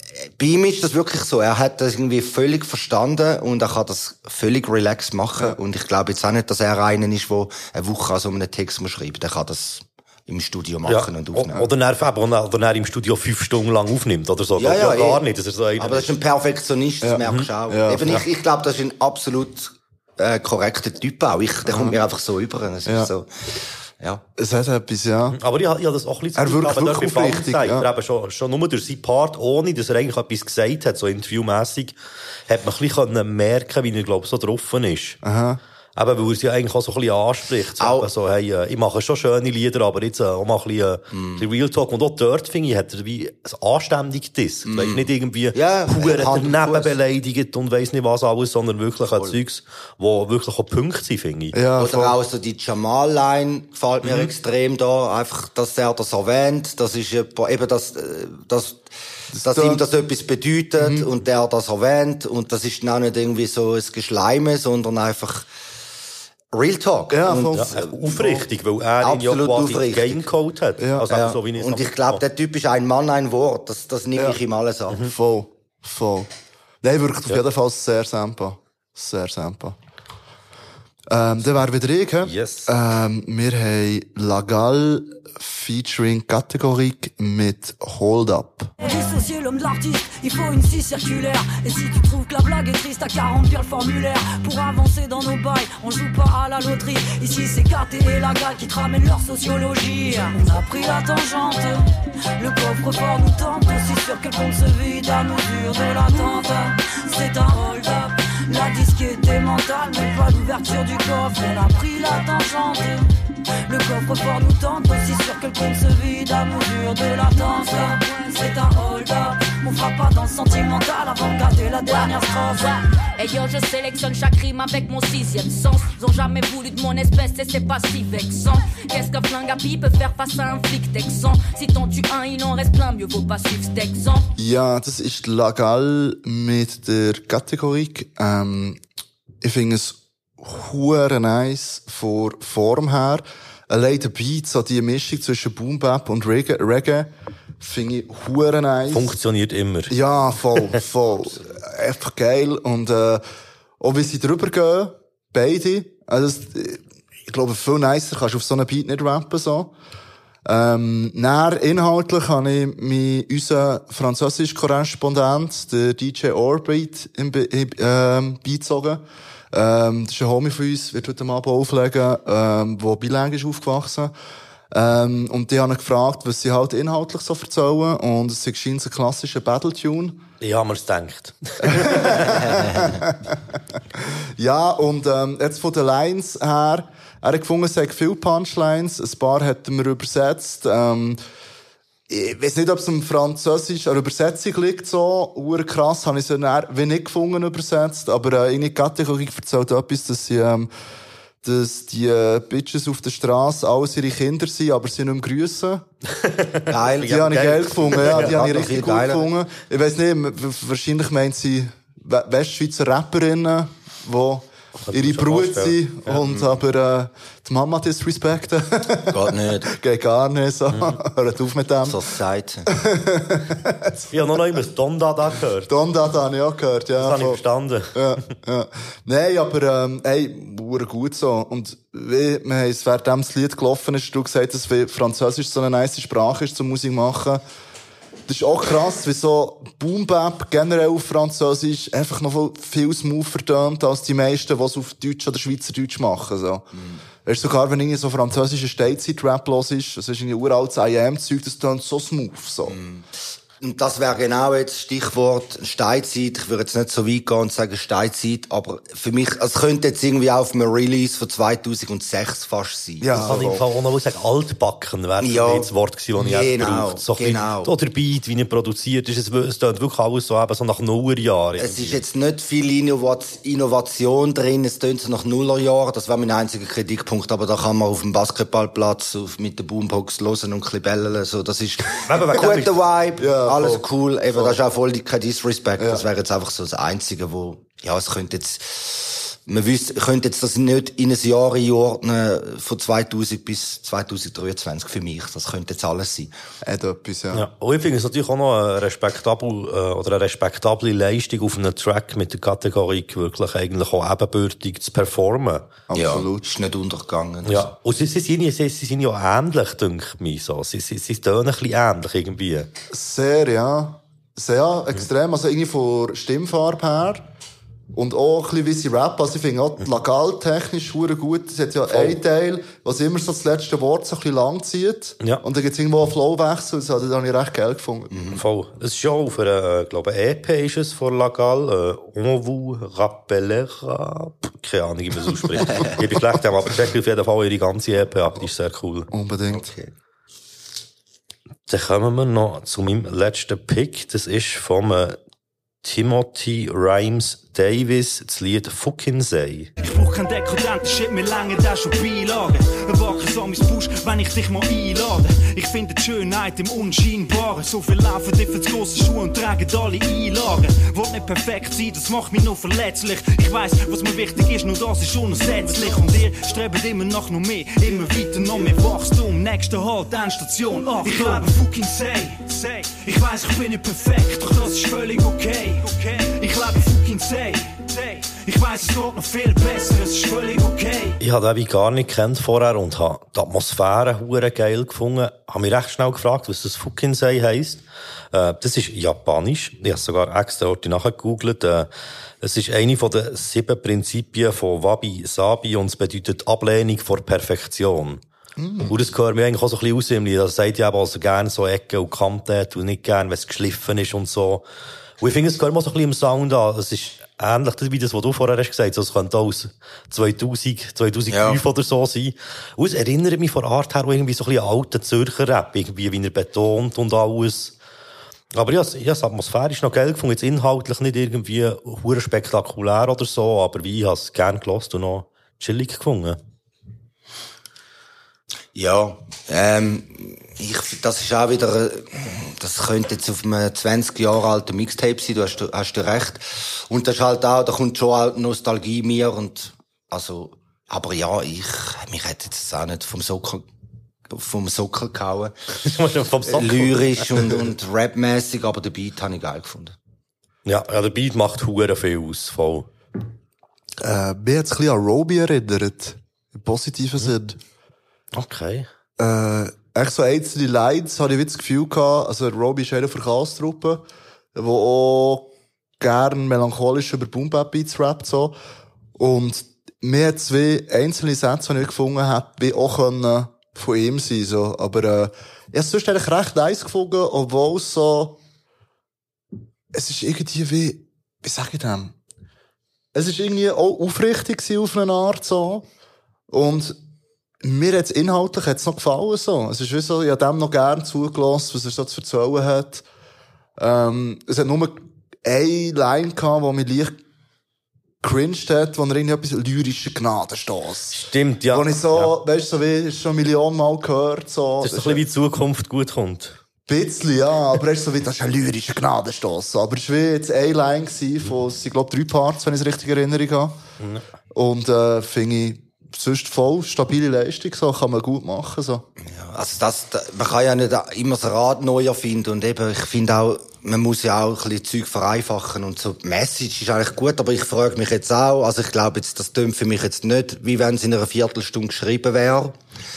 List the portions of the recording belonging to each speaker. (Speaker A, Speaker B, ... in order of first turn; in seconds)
Speaker A: 0.2-11.6, 14.6-15.2, 15.8-24.2, 37.8-38.1, 41.1-41.4, 44.6-46.9, 51.8-58.8, 59.4-65.5, 66.5-68.4, 69.0-70.2, 71.1-75.0, 182.3-183.0, 206.7-209.3, 219.1-219.7, 221.9-222.7, 246.7-247.0, 252.7-253.1, 253.6-263.3, 265.2-267.7, 271.6-296.3, 305.9-307.7, 328.1-328.4, 339.5-339.9, 411.3-411.6, 428.7-443.6, 444.3-449.9, 519.2-532.7
Speaker B: 10.9-16.1, 25.3-31.9, 32.5-35.2, 36.0-51.5, 54.0-54.3, 67.4-72.2, 82.2-82.7, 148.9-149.9, 180.4-182.3, 206.2-208.7, 214.8-216.2, 224.1-225.7, 227.0-227.9, 263.2-272.0, 282.0-282.7, 297.3-305.7, 307.4-312.7, 321.9-322.1, 328.3-339.1, 341.7-345.2, 345.8-349.7, 381.2-391.9, 392.4-398.2, 398.8-404.6, 405.2-417.7, 418.5-426.4, 445.8-447.6, 450.6-452.9, 458.3-458.9, 501.1-502.3, 504.8-506.6
Speaker C: 17.0-18.1, 24.4-25.4, 26.4-27.9, 35.2-35.6, 51.5-52.1, 59.3-59.8, 60.8-61.1, 67.1-67.8, 70.8-71.0, 75.0-76.3, 76.8-79.8, 81.1-88.7, 134.4-138.8, 139.4-149.1, 149.9-153.2, 153.8-159.7, 160.4-174.1, 174.7-180.2, 181.7-183.4, 184.4-191.2, 192.1-200.7, 201.4-205.8, 207.0-222.0, 222.7-224.0, 225.7-227.4, 227.9-237.4, 238.3-246.6, 247.2-252.8, 263.0-263.6, 283.2-284.6, 285.8-286.0, 296.6-297.4, 305.9-306.4, 312.9-317.2, 317.9-328.1, 339.1-339.7, 398.6-399.0, 454.0-457.6, 459.2-465.5, 466.0-468.6, 469.1-478.4, 479.9-482.1, 483.1-485.9, 486.5-487.0, 487.6-493.0, 493.8-497.2, 498.2-505.2, 506.9-513.8, 514.5-519.0
Speaker D: 88.8-101.8, 102.4-113.1, 113.6-122.7
Speaker E: 121.9-134.3
Speaker F: 349.8-381.2